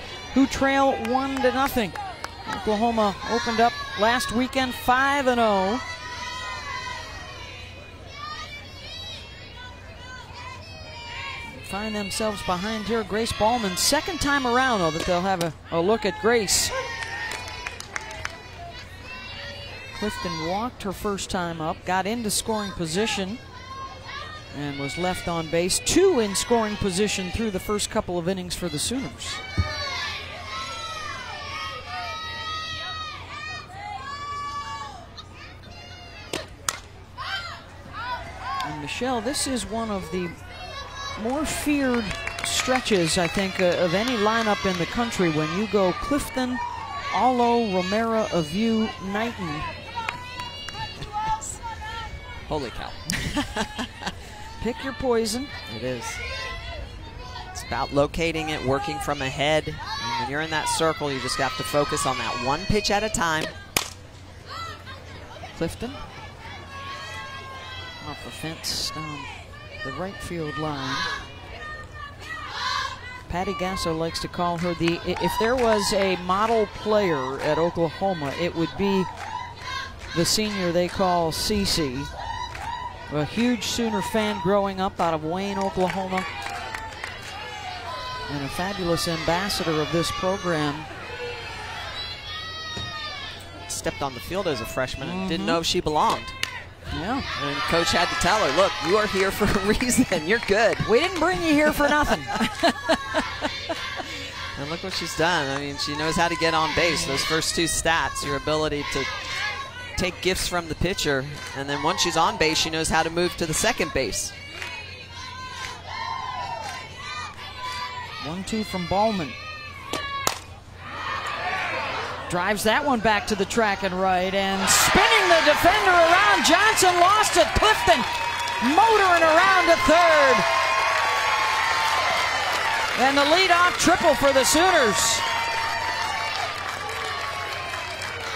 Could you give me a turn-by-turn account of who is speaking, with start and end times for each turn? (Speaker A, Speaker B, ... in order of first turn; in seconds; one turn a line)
Speaker A: 0.3-5.8
Speaker A: 11.4-16.7
Speaker A: 19.9-23.4
Speaker A: 24.5-29.4
Speaker A: 38.6-40.4
Speaker A: 41.1-49.8
Speaker B: 52.5-54.1
Speaker A: 54.6-55.6
Speaker B: 55.7-56.2
Speaker B: 57.5-63.5
Speaker A: 65.5-66.0
Speaker A: 68.0-69.3
Speaker A: 69.8-71.1
Speaker A: 73.3-79.1
Speaker A: 80.1-82.1
Speaker A: 83.1-86.3
Speaker A: 88.3-90.9
Speaker B: 93.7-96.3
Speaker A: 95.0-95.6
Speaker A: 96.9-97.3
Speaker B: 97.3-100.9
Speaker A: 100.8-103.4
Speaker B: 101.8-102.1
Speaker B: 104.6-109.1
Speaker A: 106.8-107.3
Speaker B: 110.0-114.3
Speaker A: 118.2-119.4
Speaker A: 122.3-130.5
Speaker A: 132.9-135.2